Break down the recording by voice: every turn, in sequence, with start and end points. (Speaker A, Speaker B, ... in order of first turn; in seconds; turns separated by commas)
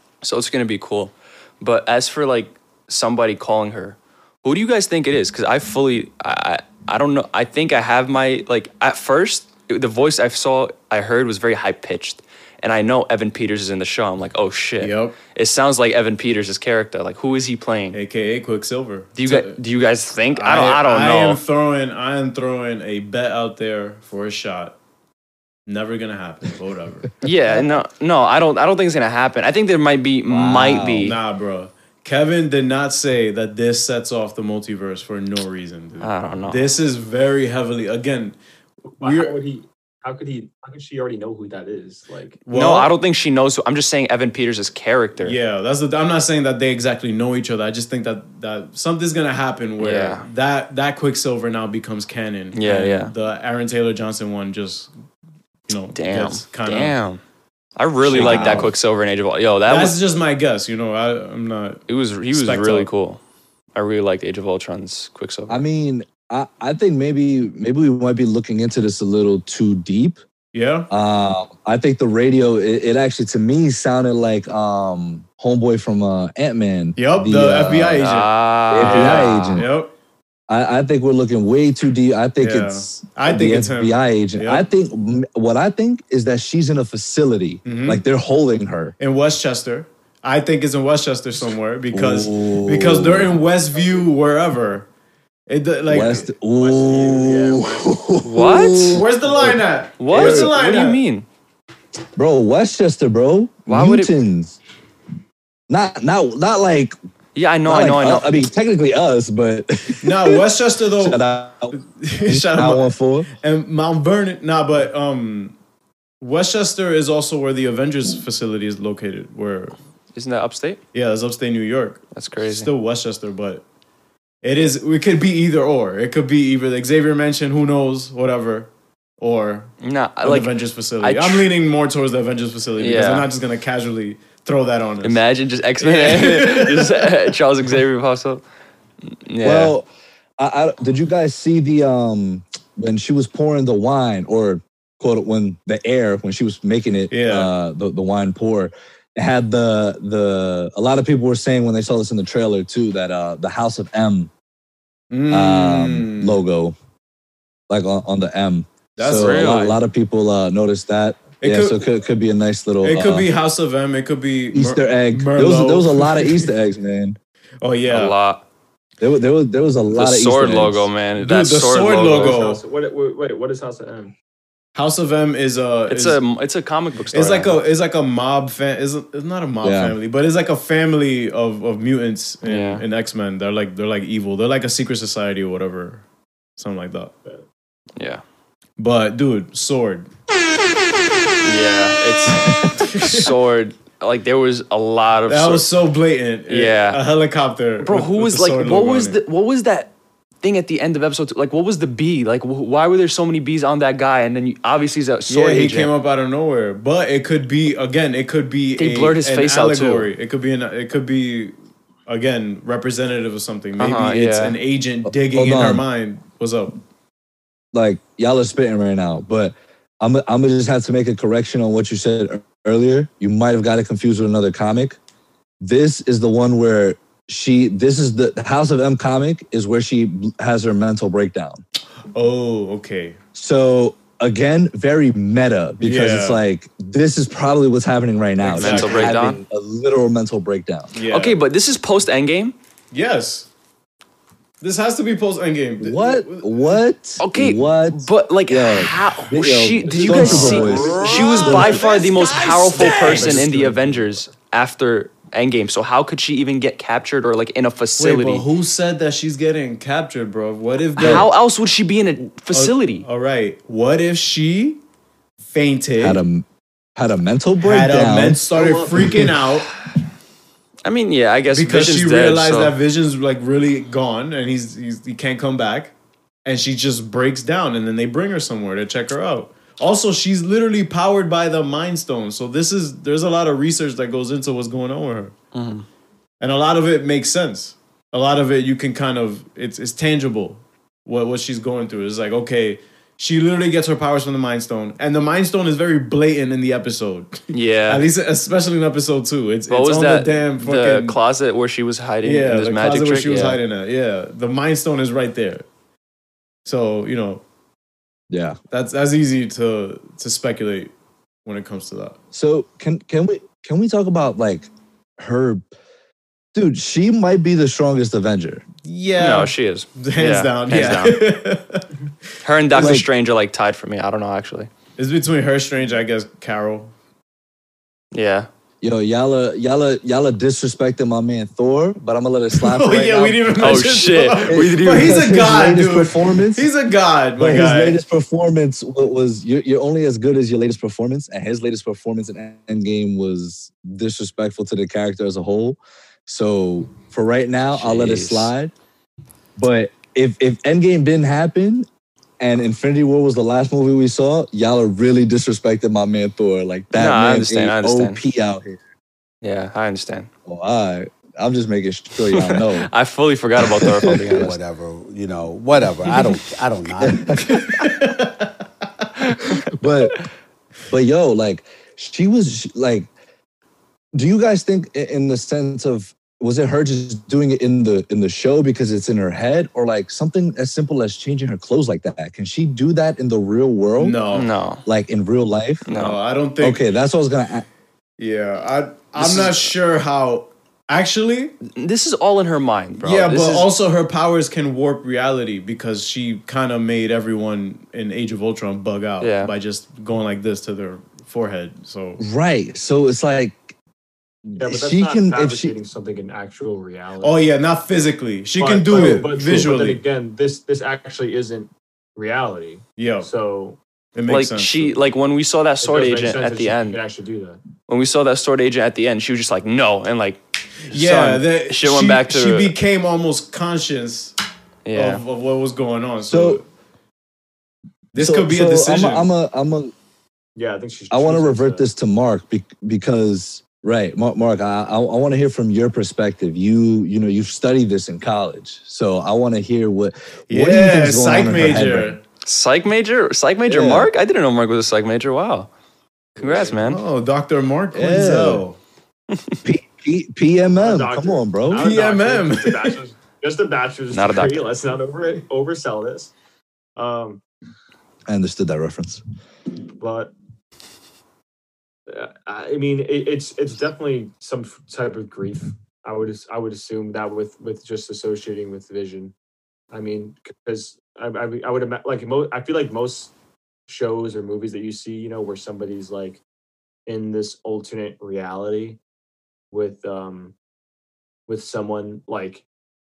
Speaker A: 0.2-18.0, Speaker B: 14.8-15.2, Speaker B: 17.9-19.6, Speaker A: 19.2-21.4, Speaker B: 20.3-24.8, Speaker B: 25.7-27.1, Speaker A: 27.2-31.2, Speaker C: 30.3-31.1, Speaker B: 31.0-38.4, Speaker A: 36.0-36.7, Speaker D: 39.0-42.4, Speaker B: 39.0-39.4, Speaker B: 42.5-42.9, Speaker A: 42.5-45.4, Speaker B: 45.2-54.9, Speaker A: 49.8-50.3, Speaker A: 52.5-53.1, Speaker B: 55.7-57.0, Speaker A: 55.9-57.2, Speaker A: 57.8-60.0, Speaker B: 58.0-58.8, Speaker C: 58.1-58.7, Speaker B: 59.7-62.9, Speaker A: 61.9-63.2, Speaker A: 63.8-65.6, Speaker C: 65.5-70.2, Speaker B: 70.5-70.9, Speaker C: 70.9-78.1, Speaker B: 77.0-79.9, Speaker A: 78.0-79.7, Speaker C: 78.7-79.7, Speaker C: 80.5-89.0, Speaker B: 82.4-84.7, Speaker B: 87.7-88.0, Speaker B: 89.0-94.9, Speaker C: 91.9-93.4, Speaker B: 95.5-96.3, Speaker C: 95.9-100.6, Speaker D: 96.5-98.0, Speaker A: 98.2-99.0, Speaker B: 98.9-101.0, Speaker A: 100.0-101.3, Speaker C: 102.2-104.6, Speaker A: 103.7-104.1, Speaker C: 105.7-107.0, Speaker A: 107.3-108.3, Speaker C: 107.6-110.5, Speaker B: 110.0-115.5, Speaker C: 111.0-113.3, Speaker B: 116.2-119.7, Speaker A: 120.2-120.8, Speaker B: 120.9-123.6, Speaker A: 122.1-122.7, Speaker B: 124.4-135.2, Speaker A: 129.8-131.5, Speaker A: 132.8-133.3, Speaker A: 135.0-138.4, Speaker B: 135.8-137.2, Speaker A: 139.3-139.7, Speaker C: 139.4-139.9, Speaker C: 140.4-154.3, Speaker B: 147.1-147.5, Speaker B: 155.1-156.4, Speaker C: 155.3-156.8, Speaker C: 157.7-163.3, Speaker B: 159.0-159.7, Speaker A: 159.0-159.8, Speaker B: 161.4-161.9, Speaker B: 162.8-166.5, Speaker C: 164.5-167.2, Speaker B: 167.6-168.2, Speaker A: 167.9-168.4, Speaker C: 169.0-170.9, Speaker A: 169.9-172.4, Speaker B: 171.2-172.6, Speaker D: 172.1-174.1, Speaker B: 174.8-176.2, Speaker A: 175.9-177.6, Speaker B: 177.1-186.0, Speaker C: 179.6-180.0, Speaker A: 182.4-182.8, Speaker B: 186.6-187.1, Speaker A: 188.0-188.2, Speaker B: 188.8-190.1, Speaker A: 191.4-195.7, Speaker C: 192.4-192.7, Speaker B: 192.7-193.3, Speaker B: 195.3-199.2, Speaker A: 196.5-197.0, Speaker A: 197.8-205.9, Speaker B: 205.3-211.6, Speaker A: 208.8-210.1, Speaker B: 212.1-216.8, Speaker A: 213.8-214.6, Speaker C: 215.1-215.8, Speaker C: 217.7-225.0, Speaker C: 225.6-231.6, Speaker B: 232.1-233.2, Speaker C: 233.3-240.9, Speaker B: 235.8-236.4, Speaker B: 238.4-239.2, Speaker A: 238.5-239.4, Speaker B: 240.9-241.4, Speaker A: 241.1-242.6, Speaker B: 242.9-243.5, Speaker B: 244.6-246.8, Speaker C: 245.8-251.9, Speaker A: 247.2-258.5, Speaker D: 249.9-254.1, Speaker B: 250.2-251.7, Speaker B: 252.7-253.5, Speaker B: 258.0-261.3, Speaker A: 261.0-263.1, Speaker C: 261.0-261.3, Speaker B: 262.5-264.8, Speaker B: 265.4-266.2, Speaker C: 266.0-269.3, Speaker B: 267.6-269.7, Speaker D: 268.5-269.3, Speaker A: 270.9-272.8, Speaker B: 271.5-275.9, Speaker B: 276.4-285.4, Speaker A: 285.5-285.9, Speaker B: 286.4-301.2, Speaker A: 297.5-298.1, Speaker A: 299.7-303.6, Speaker B: 302.2-305.7, Speaker B: 306.6-307.4, Speaker C: 308.3-308.6, Speaker B: 308.7-310.9, Speaker B: 311.4-312.2, Speaker C: 312.3-315.6, Speaker C: 316.5-318.6, Speaker B: 318.9-321.9, Speaker A: 319.2-321.2, Speaker A: 322.4-324.7, Speaker C: 322.7-323.1, Speaker B: 325.0-326.9, Speaker A: 328.1-328.5, Speaker C: 328.8-333.7, Speaker B: 332.6-338.0, Speaker A: 333.6-335.2, Speaker C: 334.4-336.7, Speaker C: 337.4-348.7, Speaker A: 347.8-348.5, Speaker C: 349.6-351.9, Speaker C: 352.4-358.8, Speaker A: 356.9-358.2, Speaker A: 359.4-360.3, Speaker C: 360.5-362.9, Speaker A: 362.3-364.6, Speaker C: 363.6-364.6, Speaker E: 364.3-367.4, Speaker C: 367.0-367.6, Speaker B: 367.6-368.5, Speaker A: 369.3-369.6, Speaker C: 369.7-370.2, Speaker C: 370.9-373.1, Speaker C: 374.1-384.2, Speaker B: 384.0-384.5, Speaker A: 384.3-384.9, Speaker C: 384.9-385.9, Speaker A: 385.9-386.2, Speaker B: 385.9-386.8, Speaker C: 386.6-387.7, Speaker B: 388.2-391.6, Speaker A: 389.2-389.7, Speaker A: 391.7-393.7, Speaker B: 393.0-402.2, Speaker A: 399.2-399.5, Speaker C: 402.2-403.7, Speaker C: 404.5-405.8, Speaker D: 404.6-407.4, Speaker B: 407.2-410.0, Speaker D: 408.6-413.8, Speaker C: 408.9-409.6, Speaker B: 413.0-413.3, Speaker B: 414.1-415.0, Speaker A: 414.3-417.0, Speaker D: 415.8-417.6, Speaker A: 417.9-422.8, Speaker B: 420.9-424.3, Speaker A: 424.9-425.2, Speaker B: 424.9-426.6, Speaker C: 426.3-426.6, Speaker B: 428.1-429.3, Speaker C: 428.2-429.9, Speaker D: 430.6-431.9, Speaker C: 431.1-442.2, Speaker B: 440.5-442.2, Speaker A: 442.4-445.7, Speaker C: 443.7-444.1, Speaker A: 446.4-447.0, Speaker B: 446.4-448.8, Speaker C: 447.9-448.6, Speaker C: 449.6-451.9, Speaker D: 450.8-456.3, Speaker B: 451.7-453.0, Speaker A: 454.1-454.7, Speaker D: 457.0-457.4, Speaker C: 458.3-459.2, Speaker D: 460.0-460.3, Speaker D: 462.1-469.3, Speaker D: 469.9-473.3, Speaker D: 473.9-476.4, Speaker D: 477.1-479.0, Speaker D: 479.7-480.6, Speaker D: 481.5-482.6